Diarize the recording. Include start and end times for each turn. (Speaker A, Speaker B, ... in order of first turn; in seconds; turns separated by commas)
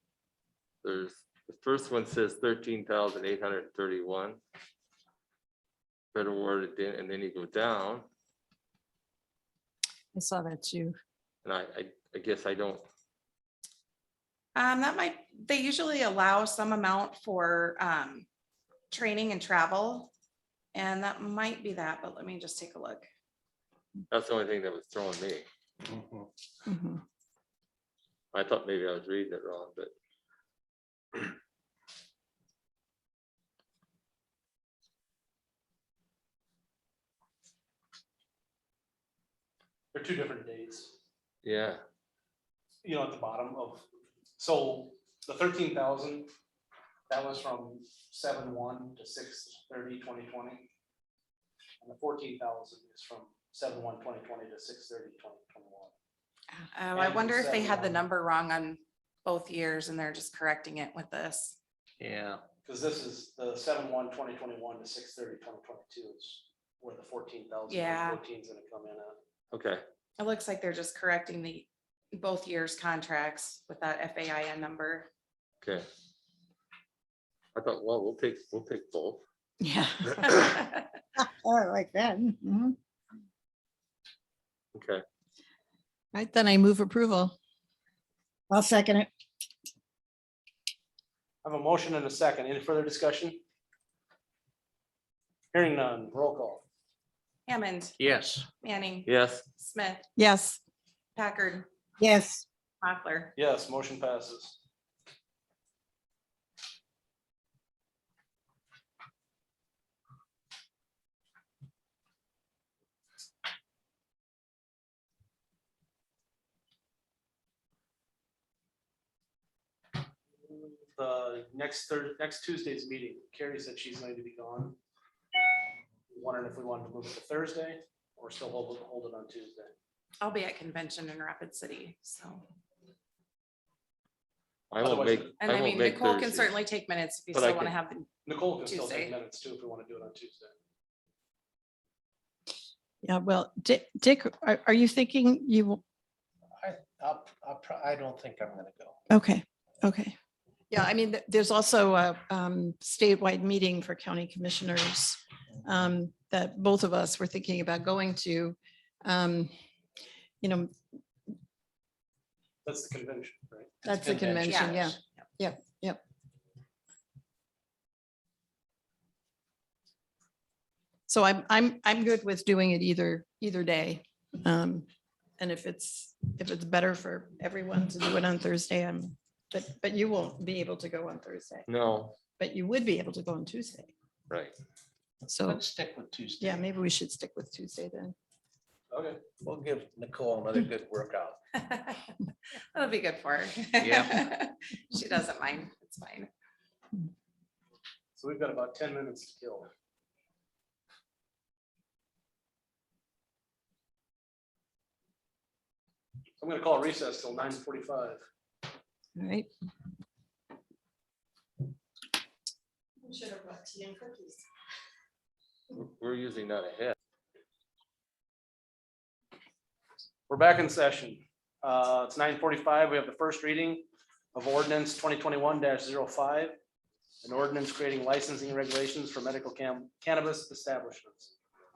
Speaker A: 0.8-4.4, Speaker A: 6.1-8.1, Speaker B: 10.1-10.9, Speaker A: 11.4-12.8, Speaker C: 14.5-18.2, Speaker C: 18.9-20.1, Speaker C: 20.7-23.1, Speaker A: 24.1-25.4, Speaker D: 25.9-26.2, Speaker B: 26.7-27.0, Speaker A: 28.3-29.9, Speaker E: 39.9-41.0, Speaker A: 41.4-41.8, Speaker E: 42.8-43.9, Speaker E: 44.4-46.3, Speaker E: 47.1-50.7, Speaker E: 51.8-55.9, Speaker C: 56.7-61.5, Speaker E: 56.9-58.0, Speaker D: 62.0-62.4, Speaker E: 62.6-69.2, Speaker C: 67.7-68.2, Speaker A: 69.5-69.8, Speaker C: 70.2-75.1, Speaker A: 77.5-79.2, Speaker B: 79.6-80.5, Speaker F: 81.2-82.7, Speaker A: 84.7-85.0, Speaker B: 86.1-87.3, Speaker F: 88.5-89.1, Speaker E: 91.4-93.4, Speaker E: 95.5-96.6, Speaker C: 97.5-97.9, Speaker D: 98.0-98.5, Speaker C: 98.6-100.0, Speaker A: 99.0-99.4, Speaker B: 100.2-100.6, Speaker C: 101.2-101.7, Speaker F: 102.0-102.5, Speaker C: 102.8-103.3, Speaker E: 103.3-104.6, Speaker E: 120.5-124.8, Speaker E: 126.1-129.7, Speaker C: 130.2-132.4, Speaker A: 134.7-136.5, Speaker E: 134.8-135.4, Speaker C: 135.4-139.1, Speaker A: 137.3-137.7, Speaker E: 138.2-140.5, Speaker B: 143.0-145.8, Speaker D: 146.6-149.0, Speaker B: 149.1-150.1, Speaker B: 150.7-159.5, Speaker B: 160.4-160.7, Speaker E: 162.6-165.0, Speaker B: 163.8-166.0, Speaker C: 164.4-164.8, Speaker B: 171.1-174.8, Speaker B: 175.4-181.7, Speaker A: 181.7-182.2, Speaker B: 182.4-183.9, Speaker A: 184.3-184.5, Speaker B: 185.2-185.6, Speaker D: 185.4-186.6, Speaker B: 186.4-188.1, Speaker E: 188.9-189.2, Speaker D: 189.4-191.4, Speaker C: 191.7-192.0, Speaker C: 192.7-196.3, Speaker D: 193.8-194.2, Speaker E: 198.2-199.7, Speaker E: 206.4-208.2, Speaker B: 209.2-209.5, Speaker B: 213.0-214.4, Speaker A: 215.7-216.9, Speaker E: 220.3-226.6, Speaker E: 227.2-231.3